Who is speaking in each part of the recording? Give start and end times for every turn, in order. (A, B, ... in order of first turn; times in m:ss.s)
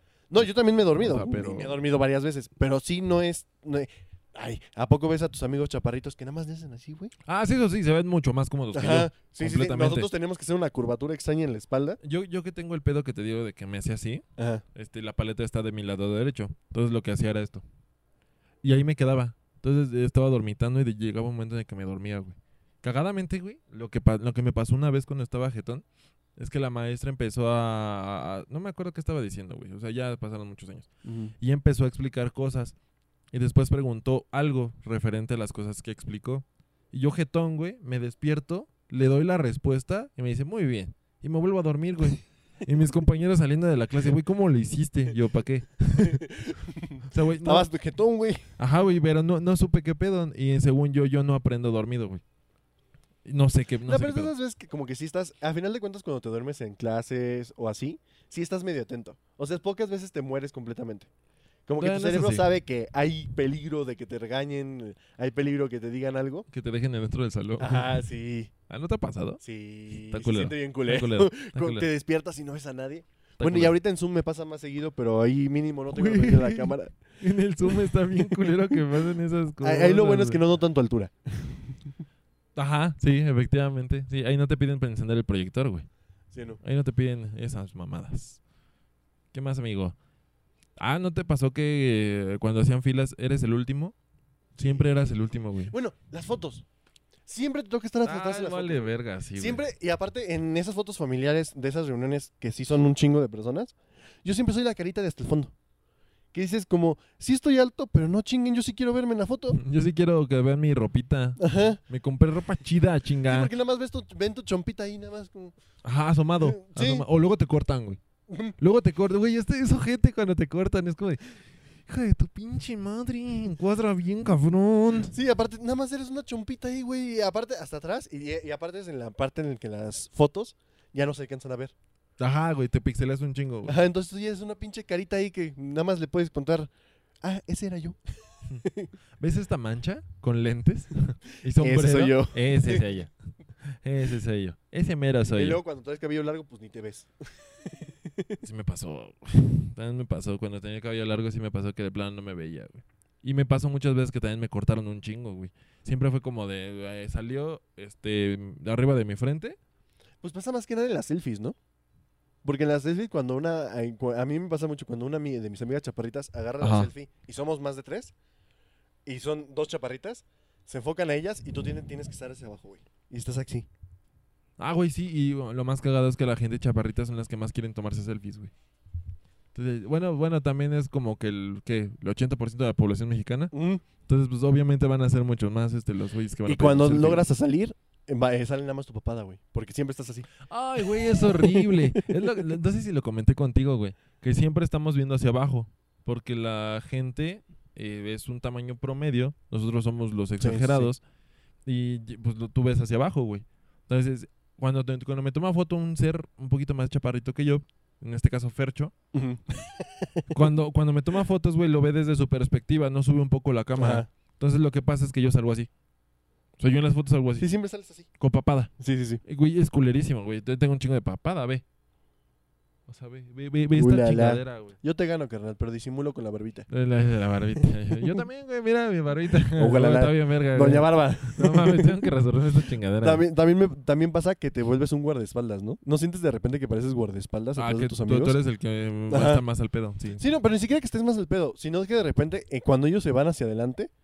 0:00.3-0:07.1 A
0:01.0-0:01.8 B
0:07.3-0:10.1 B
0:08.7-0:12.0 A
0:12.0-0:14.2 B
0:14.4-0:14.6 A
0:14.8-0:17.6 B
0:18.6-0:25.8 B
0:26.4-0:32.8 B
0:31.0-0:31.3 A
0:33.3-0:46.2 B
0:46.0-0:48.5 A
0:47.1-0:47.7 B
0:48.6-0:52.2 B
0:53.2-0:54.3 B
0:53.9-1:01.1 A
1:01.7-1:06.5 A
1:01.8-1:02.5 B
1:06.5-1:08.0 B
1:07.6-1:08.5 A
1:08.7-1:11.9 B
1:09.4-1:16.9 A
1:13.4-1:13.8 B
1:15.9-1:20.4 B
1:17.6-1:18.8 A
1:19.6-1:21.9 A
1:22.6-1:25.9 B
1:26.3-1:26.6 A
1:26.6-1:28.4 B
1:29.3-1:30.0 B
1:30.8-1:34.0 B
1:34.6-1:34.9 A
1:34.6-1:35.7 B
1:35.7-1:36.6 A
1:37.3-1:45.5 A
1:38.0-1:39.6 B
1:46.3-1:49.6 A
1:49.5-1:53.5 B
1:51.4-1:51.8 A
1:53.3-1:55.6 A
1:55.8-1:58.0 B
1:56.4-1:57.1 A
1:58.3-1:58.6 A
1:58.6-2:05.1 B
2:05.1-2:11.7 A
2:12.2-2:13.8 B
2:13.7-2:16.7 A
2:17.2-2:18.0 A
2:18.6-2:18.9 A
2:19.2-2:23.1 B
2:21.6-2:22.8 A
2:23.7-2:25.6 B
2:25.3-2:28.4 A
2:28.4-2:39.6 B
2:40.2-2:41.6 A
2:42.4-2:48.1 A
2:46.6-2:46.9 B
2:49.1-2:53.7 A
2:54.6-2:58.5 B
2:59.5-3:03.5 B
3:03.5-3:03.8 A
3:04.1-3:07.3 B
3:06.5-3:10.3 A
3:10.5-3:21.0 B
3:11.1-3:12.3 A
3:20.4-3:20.9 A
3:21.7-3:28.9 B
3:29.1-3:30.2 A
3:30.3-3:35.7 B
3:33.8-3:34.1 A
3:36.6-3:37.5 B
3:37.4-3:38.1 A
3:38.2-3:38.7 B
3:38.8-3:39.2 A
3:39.2-3:41.6 B
3:42.9-3:44.8 B
3:43.8-3:46.7 A
3:46.7-3:53.2 B
3:47.6-3:48.2 A
3:49.6-3:52.1 A
3:53.0-3:58.4 A
3:57.6-4:00.2 B
3:59.1-3:59.4 A
4:00.2-4:03.9 A